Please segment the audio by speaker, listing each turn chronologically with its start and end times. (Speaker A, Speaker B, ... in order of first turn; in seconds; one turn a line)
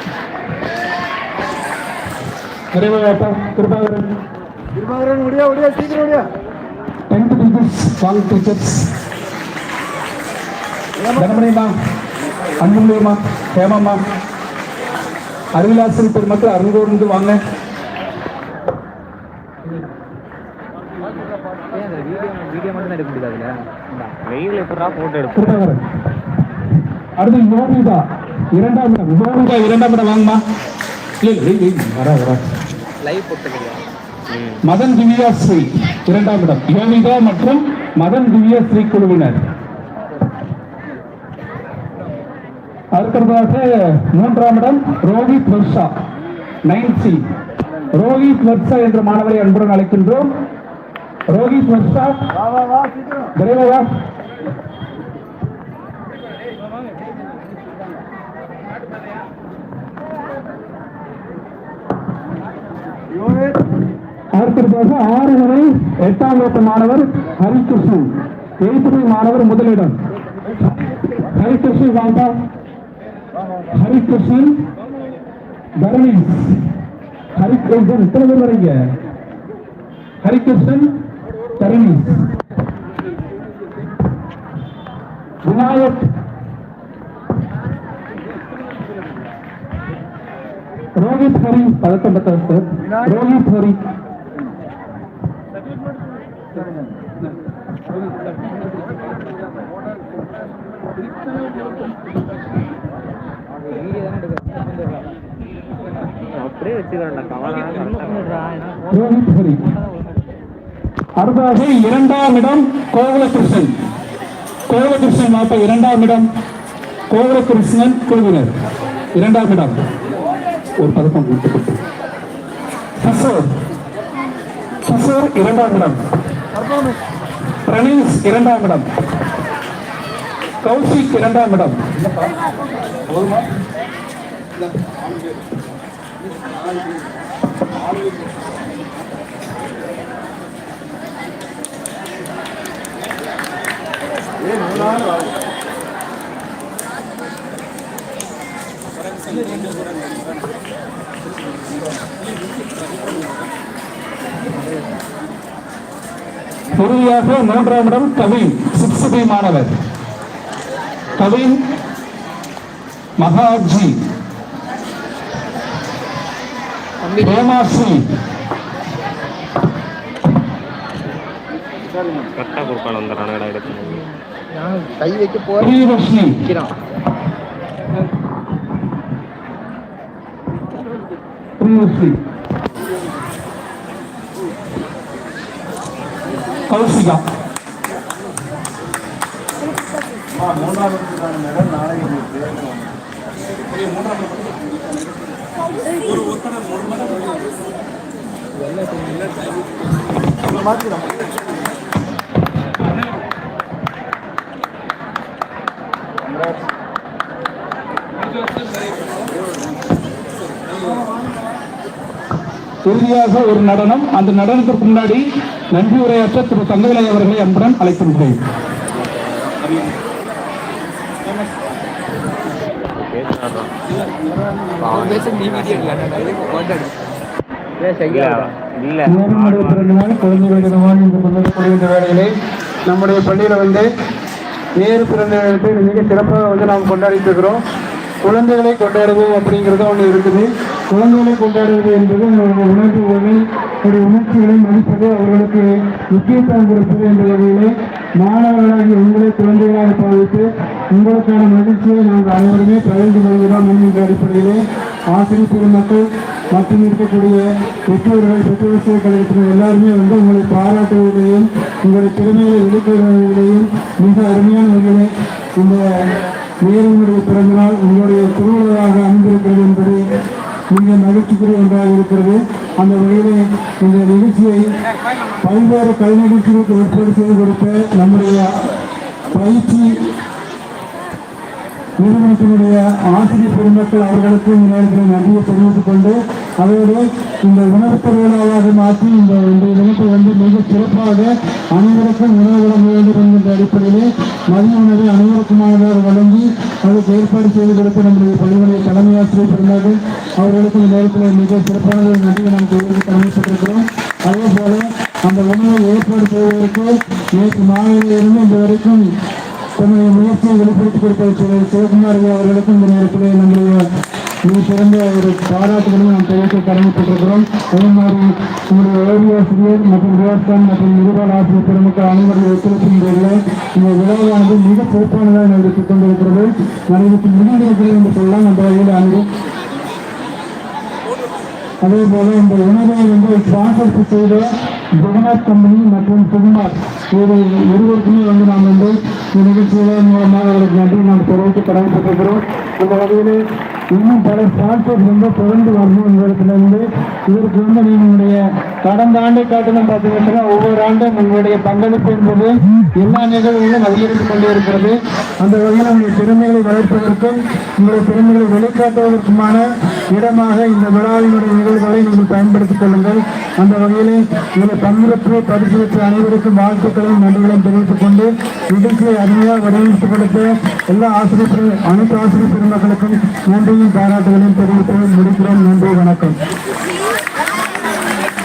Speaker A: 2.7-4.1
Speaker A: 7.1-8.9
Speaker A: 11.1-11.7
Speaker A: 12.6-14.0
Speaker A: 15.5-17.4
Speaker B: 21.8-24.0
Speaker C: 24.2-25.6
Speaker A: 25.4-25.8
Speaker A: 27.2-30.4
Speaker A: 31.2-32.4
Speaker B: 33.0-33.8
Speaker C: 34.3-34.6
Speaker A: 34.6-39.4
Speaker A: 42.9-45.9
Speaker A: 46.6-47.2
Speaker A: 47.9-50.3
Speaker A: 51.3-52.2
Speaker A: 53.3-53.8
Speaker A: 64.3-68.1
Speaker A: 68.6-70.0
Speaker A: 71.3-72.3
Speaker A: 73.7-74.5
Speaker A: 75.8-76.6
Speaker A: 77.3-78.8
Speaker A: 80.2-80.9
Speaker A: 81.6-82.0
Speaker A: 85.4-86.0
Speaker A: 91.0-93.8
Speaker C: 106.2-108.7
Speaker A: 108.9-109.6
Speaker A: 111.2-113.7
Speaker A: 114.7-116.3
Speaker A: 117.1-118.5
Speaker A: 119.1-119.8
Speaker A: 120.8-121.8
Speaker A: 123.0-123.4
Speaker A: 124.8-126.0
Speaker A: 127.6-128.9
Speaker A: 130.6-132.3
Speaker A: 133.1-133.5
Speaker A: 156.8-159.7
Speaker A: 161.2-161.5
Speaker A: 163.2-163.9
Speaker A: 167.1-168.0
Speaker C: 172.3-174.1
Speaker B: 174.8-175.4
Speaker A: 175.5-176.6
Speaker A: 181.6-182.2
Speaker A: 186.7-187.2
Speaker A: 212.8-218.4
Speaker C: 223.0-223.7
Speaker C: 224.8-226.1
Speaker B: 226.2-226.9
Speaker C: 228.0-230.1
Speaker D: 229.0-232.3
Speaker D: 232.9-233.8
Speaker D: 234.8-237.6
Speaker D: 238.2-254.6
Speaker D: 255.1-265.8
Speaker D: 266.6-270.0
Speaker D: 270.7-274.7
Speaker D: 275.4-278.6
Speaker D: 279.3-279.9
Speaker D: 282.0-309.1
Speaker D: 309.8-313.8
Speaker D: 314.4-329.2
Speaker D: 331.8-334.5
Speaker D: 335.0-343.4
Speaker D: 343.9-376.4